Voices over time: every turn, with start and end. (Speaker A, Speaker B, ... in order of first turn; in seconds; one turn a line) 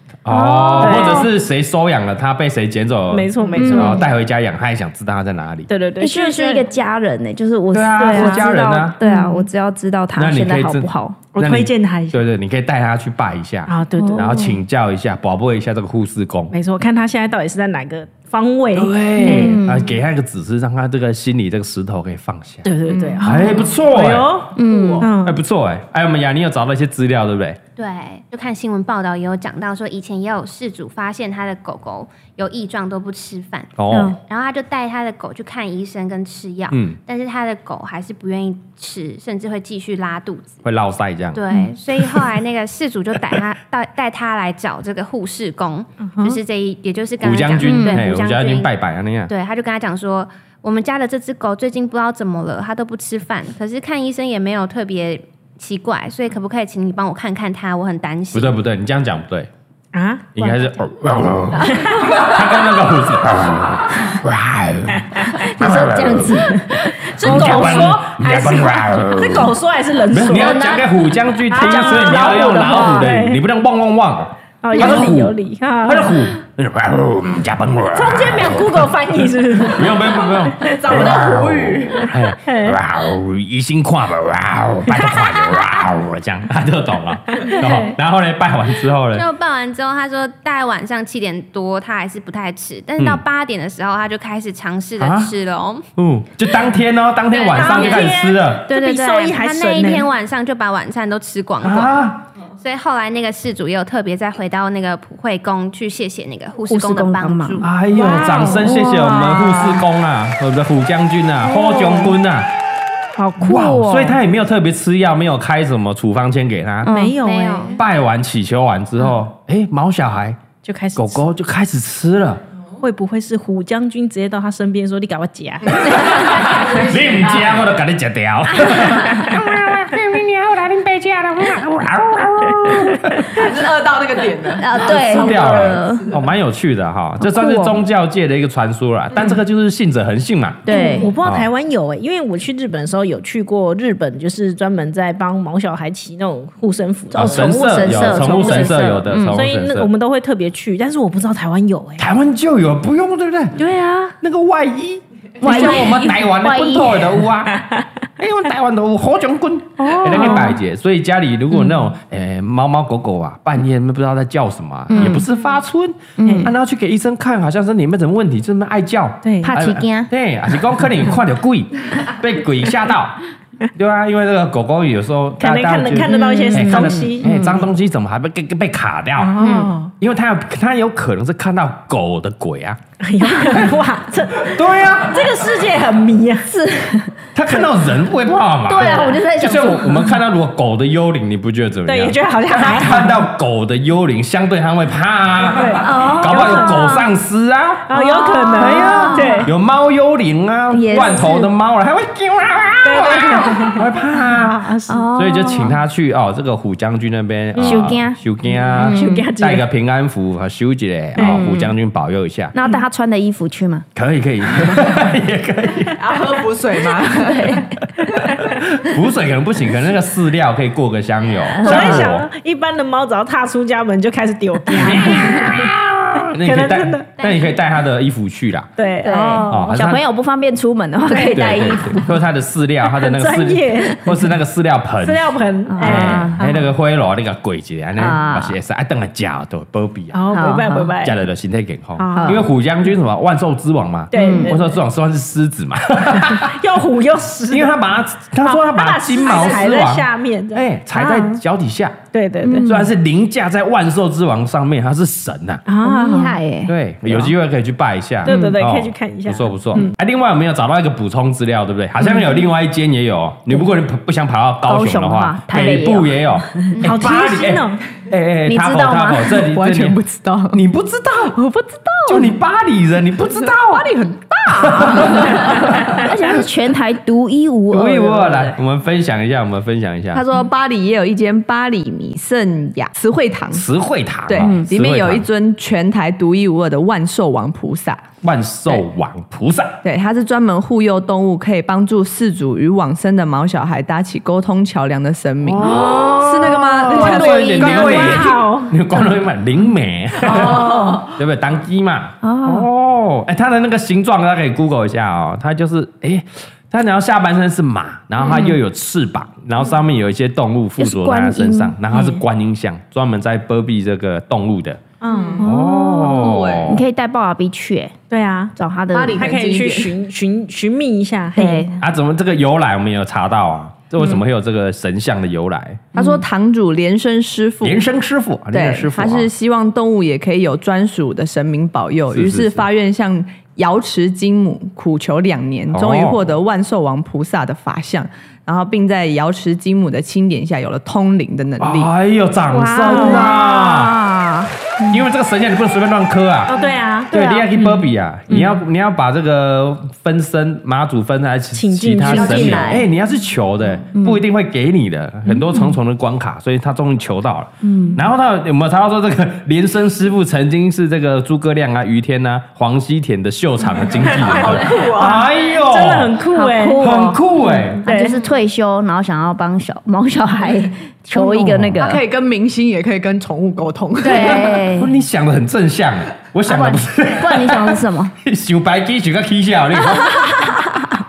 Speaker A: 0.2-5.7
Speaker B: 0.3-1.3
Speaker C: 0.8-1.3
Speaker C: 3.1-4.1
Speaker B: 3.5-4.1
Speaker C: 5.7-6.7
Speaker B: 6.0-11.2
Speaker A: 7.7-9.0
Speaker C: 8.1-8.5
Speaker C: 9.0-9.4
Speaker A: 10.2-16.5
Speaker C: 11.3-12.2
Speaker C: 13.7-14.4
Speaker B: 13.9-14.6
Speaker C: 16.5-19.6
Speaker A: 18.7-22.7
Speaker B: 19.2-20.0
Speaker C: 22.6-25.4
Speaker D: 22.9-23.6
Speaker A: 23.2-24.4
Speaker B: 24.5-25.1
Speaker D: 24.7-25.0
Speaker A: 25.2-27.6
Speaker E: 27.8-40.6
Speaker A: 33.8-34.2
Speaker B: 33.9-34.2
Speaker A: 36.7-37.0
Speaker A: 40.6-41.4
Speaker E: 41.3-48.7
Speaker C: 46.0-46.4
Speaker A: 47.2-49.3
Speaker B: 47.6-48.1
Speaker E: 49.3-58.5
Speaker A: 58.3-59.5
Speaker C: 59.9-60.6
Speaker A: 60.3-66.5
Speaker C: 61.7-62.2
Speaker C: 65.0-65.3
Speaker B: 65.2-68.2
Speaker C: 67.0-70.7
Speaker A: 67.2-69.5
Speaker A: 70.1-78.9
Speaker B: 70.3-73.1
Speaker C: 71.5-73.4
Speaker C: 74.6-76.2
Speaker B: 74.7-75.1
Speaker C: 77.9-81.1
Speaker A: 79.7-89.2
Speaker D: 80.6-82.1
Speaker C: 82.4-82.8
Speaker C: 87.3-87.9
Speaker E: 89.1-95.8
Speaker A: 93.0-93.2
Speaker A: 95.0-95.3
Speaker A: 96.0-98.7
Speaker E: 97.3-101.9
Speaker C: 97.4-100.0
Speaker A: 101.6-102.2
Speaker E: 102.6-107.7
Speaker B: 106.7-107.6
Speaker A: 107.6-112.5
Speaker C: 107.9-108.7
Speaker B: 108.2-109.8
Speaker B: 111.4-112.2
Speaker B: 113.2-114.2
Speaker A: 113.4-116.9
Speaker B: 116.8-117.2
Speaker C: 116.9-117.8
Speaker E: 117.2-117.8
Speaker A: 117.8-120.4
Speaker C: 120.6-121.2
Speaker A: 121.0-122.4
Speaker C: 122.8-126.3
Speaker A: 125.7-133.4
Speaker D: 126.4-127.4
Speaker B: 128.5-129.5
Speaker C: 129.0-129.3
Speaker D: 133.3-136.2
Speaker B: 134.6-136.1
Speaker A: 134.8-141.5
Speaker B: 137.2-137.8
Speaker B: 140.7-141.1
Speaker C: 140.7-152.1
Speaker B: 147.1-149.4
Speaker A: 147.1-149.9
Speaker A: 152.0-153.6
Speaker C: 153.6-154.1
Speaker A: 154.2-173.2
Speaker B: 155.4-157.2
Speaker C: 155.4-156.1
Speaker C: 157.5-157.8
Speaker C: 159.8-160.5
Speaker B: 160.1-160.6
Speaker B: 164.9-165.3
Speaker B: 166.2-166.5
Speaker C: 166.2-166.5
Speaker C: 169.2-169.5
Speaker B: 169.4-170.1
Speaker A: 173.7-182.8
Speaker C: 175.4-177.6
Speaker B: 176.0-177.5
Speaker C: 179.2-179.9
Speaker B: 179.4-179.7
Speaker C: 183.0-186.5
Speaker A: 183.4-183.7
Speaker A: 184.4-185.5
Speaker B: 186.5-187.6
Speaker A: 187.3-197.9
Speaker B: 188.3-190.2
Speaker C: 188.8-189.2
Speaker C: 191.8-193.1
Speaker C: 195.5-196.9
Speaker B: 195.8-197.1
Speaker C: 197.9-199.5
Speaker B: 197.9-199.5
Speaker A: 198.6-212.5
Speaker B: 200.7-201.5
Speaker C: 202.8-205.1
Speaker B: 203.4-203.7
Speaker B: 204.9-205.8
Speaker C: 207.5-207.9
Speaker B: 207.6-209.3
Speaker C: 208.7-209.6
Speaker C: 211.2-211.4
Speaker B: 211.2-211.7
Speaker B: 212.5-213.9
Speaker A: 213.9-216.0
Speaker D: 216.0-218.3
Speaker B: 217.3-217.6
Speaker A: 217.8-222.3
Speaker B: 221.4-222.1
Speaker C: 221.6-227.1
Speaker A: 224.8-228.7
Speaker E: 227.2-227.6
Speaker C: 228.8-229.8
Speaker B: 229.0-232.2
Speaker A: 229.5-230.0
Speaker C: 231.1-231.8
Speaker A: 231.2-240.2
Speaker C: 232.9-234.1
Speaker C: 235.0-236.7
Speaker B: 235.7-236.4
Speaker B: 238.0-238.6
Speaker C: 240.1-241.1
Speaker B: 240.3-240.9
Speaker A: 241.0-246.6
Speaker C: 242.0-242.5
Speaker B: 242.1-242.4
Speaker C: 244.1-244.7
Speaker B: 244.1-244.6
Speaker C: 246.1-247.8
Speaker A: 247.5-251.9
Speaker C: 248.4-251.4
Speaker C: 252.1-252.7
Speaker B: 252.4-252.9
Speaker A: 252.6-255.6
Speaker C: 255.7-256.4
Speaker B: 255.8-257.3
Speaker A: 256.6-270.0
Speaker C: 258.2-259.9
Speaker B: 258.2-258.6
Speaker B: 264.6-266.8
Speaker C: 266.8-267.8
Speaker B: 268.4-269.4
Speaker D: 269.4-270.6
Speaker A: 270.5-271.4
Speaker D: 271.4-272.3
Speaker A: 272.1-273.9
Speaker D: 273.4-276.1
Speaker A: 274.5-276.0
Speaker B: 275.9-278.6
Speaker A: 277.7-280.2
Speaker D: 280.1-283.7
Speaker A: 283.5-285.3
Speaker D: 284.3-288.1
Speaker B: 284.3-284.7
Speaker A: 288.2-289.8
Speaker D: 289.8-298.4
Speaker A: 295.4-314.8
Speaker B: 295.6-296.0
Speaker C: 296.9-299.1
Speaker D: 300.2-301.1
Speaker B: 300.4-301.0
Speaker B: 302.2-302.7
Speaker B: 308.2-308.6
Speaker B: 310.8-311.8
Speaker C: 311.9-312.2
Speaker C: 315.0-315.4
Speaker D: 315.1-316.8
Speaker B: 315.4-317.9
Speaker A: 315.4-316.8
Speaker C: 318.1-318.5
Speaker B: 318.5-319.4
Speaker D: 318.9-320.0
Speaker C: 319.1-321.7
Speaker B: 321.3-321.8
Speaker A: 321.8-325.8
Speaker D: 325.9-327.9
Speaker B: 325.9-326.2
Speaker A: 327.6-329.3
Speaker D: 328.5-341.9
Speaker A: 332.1-332.6
Speaker A: 335.7-336.3
Speaker A: 341.6-344.0
Speaker B: 342.5-345.0
Speaker C: 342.8-343.3
Speaker A: 344.9-346.5
Speaker C: 346.5-348.6
Speaker A: 347.1-366.2
Speaker B: 347.1-347.7
Speaker C: 351.5-352.8
Speaker B: 352.0-352.9
Speaker B: 353.9-354.2
Speaker B: 355.2-355.7
Speaker B: 357.6-358.0
Speaker D: 364.0-365.3
Speaker C: 364.3-367.0
Speaker B: 366.3-372.0
Speaker A: 366.8-367.9
Speaker C: 367.8-368.2
Speaker A: 371.2-371.8
Speaker D: 371.8-374.6
Speaker B: 374.0-374.9
Speaker A: 374.1-380.4
Speaker B: 376.4-378.1
Speaker B: 380.0-380.8